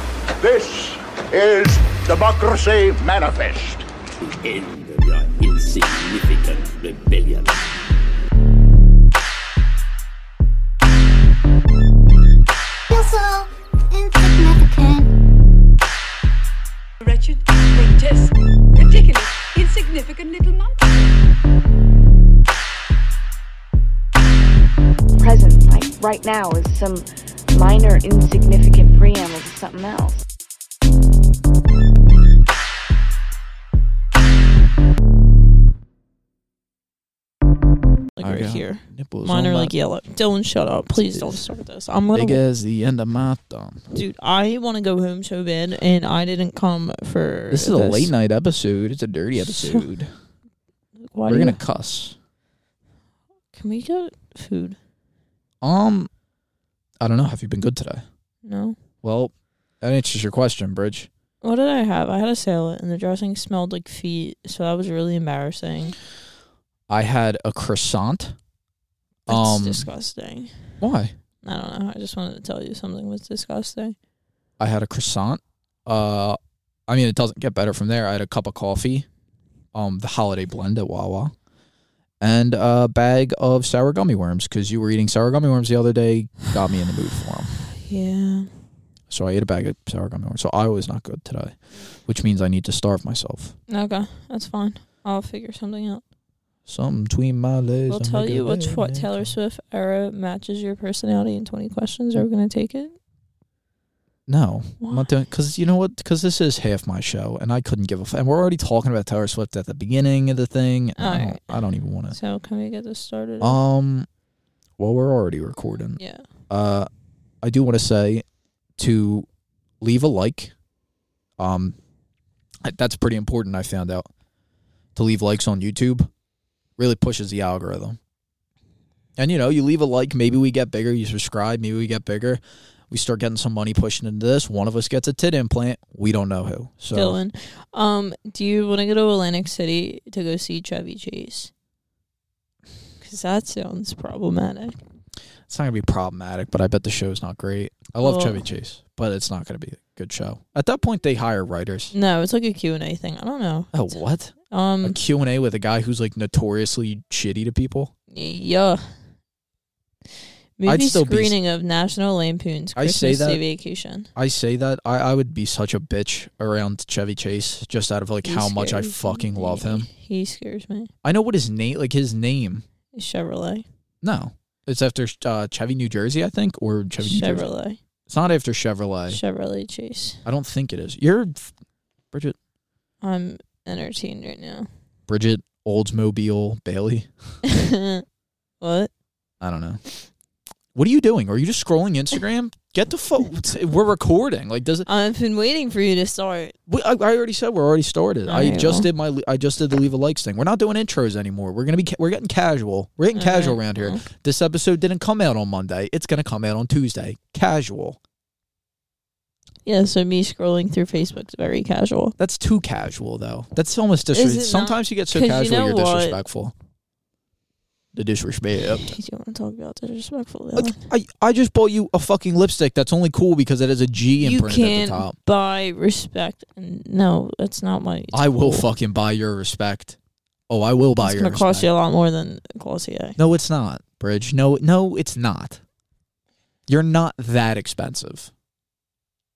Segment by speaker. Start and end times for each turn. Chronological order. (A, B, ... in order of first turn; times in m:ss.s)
0:00.4-0:03.9 A
0:04.1-0:07.6 B
0:12.9-0:15.1 C
0:17.0-0:20.8 D
0:25.2-0:30.2 E
0:38.2-0:42.4 F
0:38.2-0:39.7 G
0:41.1-0:41.4 G
0:42.1-0:43.8 G
0:43.9-0:48.1 F
0:47.5-0:50.1 G
0:49.6-0:49.8 F
0:51.0-0:51.6 F
0:51.3-0:52.2 G
0:53.5-0:54.8 F
0:55.6-0:56.1 G
0:57.0-0:58.0 G
0:58.4-0:58.8 F
0:59.0-1:01.1 G
1:01.4-1:06.0 F
1:06.9-1:08.3 G
1:09.3-1:09.9 G
1:09.3-1:10.5 F
1:10.8-1:11.1 G
1:11.4-1:14.0 F
1:14.6-1:19.1 G
1:19.7-1:21.3 G
1:22.2-1:27.6 G
1:27.7-1:28.5 F
1:29.1-1:31.5 G
1:32.1-1:33.6 G
1:33.7-1:36.0 F
1:36.7-1:39.3 G
1:37.9-1:42.9 F
1:44.3-1:52.2 G
1:44.8-1:45.1 F
1:51.0-1:51.6 F
1:52.1-1:53.6 F
1:53.4-1:54.1 G
1:54.8-1:56.9 G
1:56.0-1:56.2 F
1:57.4-1:58.2 G
1:58.8-1:59.3 G
1:59.8-2:00.5 G
2:01.4-2:01.8 G
2:02.6-2:04.1 G
2:04.9-2:06.1 G
2:06.8-2:08.0 G
2:09.2-2:17.2 G
2:16.9-2:21.5 F
2:23.0-2:24.8 F
2:25.5-2:31.9 G
2:28.0-2:28.4 F
2:31.9-2:34.0 F
2:33.7-2:37.9 G
2:34.5-2:35.0 F
2:38.1-2:38.8 F
2:40.6-2:44.1 F
2:40.6-2:41.4 G
2:42.8-2:43.4 G
2:44.2-2:49.9 G
2:48.2-2:50.9 F
2:51.0-2:52.6 G
2:52.9-2:53.7 F
2:54.0-2:57.5 G
2:57.0-2:57.8 F
2:58.1-2:59.2 G
2:59.1-3:00.2 F
3:00.2-3:01.5 G
3:02.1-3:02.4 G
3:03.0-3:04.7 F
3:05.1-3:07.1 G
3:07.4-3:08.0 F
3:08.6-3:08.9 F
3:09.4-3:09.8 G
3:10.7-3:14.9 G
3:14.9-3:16.5 F
3:16.7-3:28.0 G
3:18.3-3:18.9 F
3:23.1-3:24.0 F
3:29.7-3:32.1 F
3:32.2-3:36.5 G
3:34.1-3:36.2 F
3:37.9-3:38.9 G
3:38.7-3:40.8 F
3:40.5-3:45.2 G
3:44.2-3:48.7 F
3:48.1-3:50.0 G
3:50.5-3:51.7 G
3:51.0-3:53.2 F
3:53.2-3:55.6 G
3:56.7-3:58.3 G